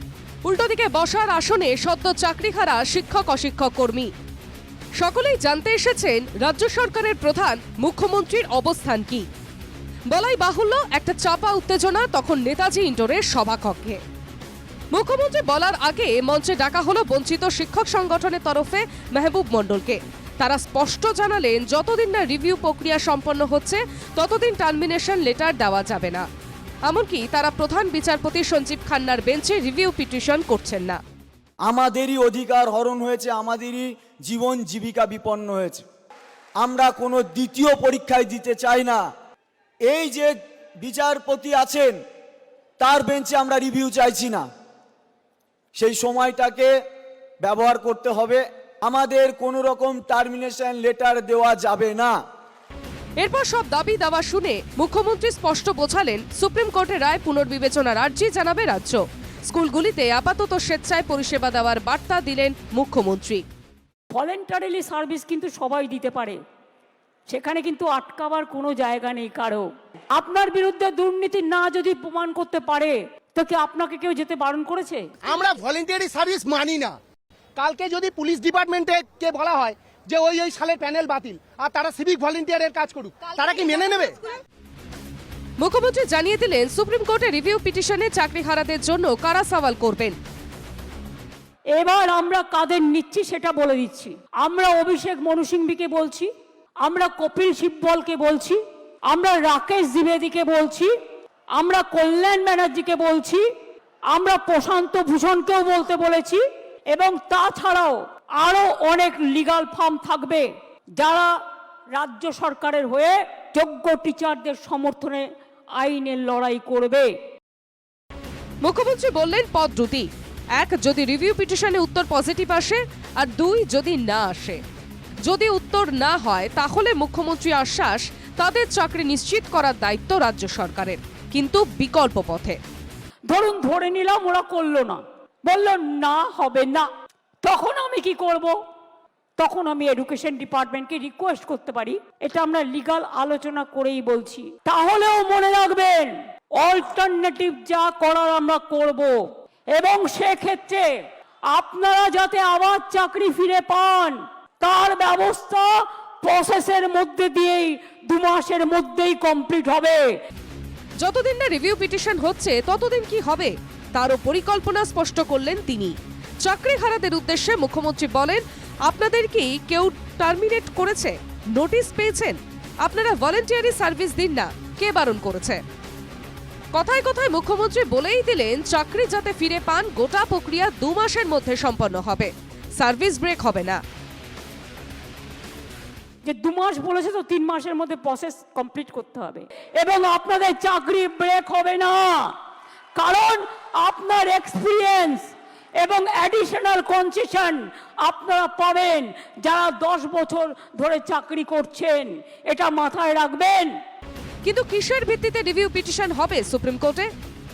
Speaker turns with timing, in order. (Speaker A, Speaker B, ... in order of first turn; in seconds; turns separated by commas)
Speaker A: 0.4-4.1, Speaker A: 5.0-9.2, Speaker A: 10.1-14.0, Speaker A: 14.9-26.2, Speaker A: 26.9-31.0, Speaker B: 31.7-35.8, Speaker B: 36.6-39.0, Speaker B: 39.9-42.0, Speaker B: 42.8-44.5, Speaker B: 45.7-46.7, Speaker B: 47.4-52.1, Speaker A: 53.2-63.4, Speaker C: 64.1-66.4, Speaker C: 67.3-75.1, Speaker D: 75.2-77.0, Speaker D: 77.6-84.2, Speaker A: 85.6-90.1, Speaker C: 91.8-96.3, Speaker C: 96.8-98.6, Speaker C: 99.1-100.9, Speaker C: 101.6-103.4, Speaker C: 104.1-106.4, Speaker C: 106.9-110.4, Speaker C: 111.0-111.3, Speaker C: 111.9-115.2, Speaker C: 115.8-117.1, Speaker A: 118.6-124.6, Speaker A: 125.2-132.6, Speaker C: 133.3-136.9, Speaker C: 137.4-138.6, Speaker C: 139.4-149.2, Speaker C: 149.7-150.8, Speaker C: 151.5-160.0, Speaker A: 161.0-175.6, Speaker A: 176.7-183.8, Speaker C: 186.2-192.4, Speaker C: 192.9-203.7, Speaker A: 204.4-207.1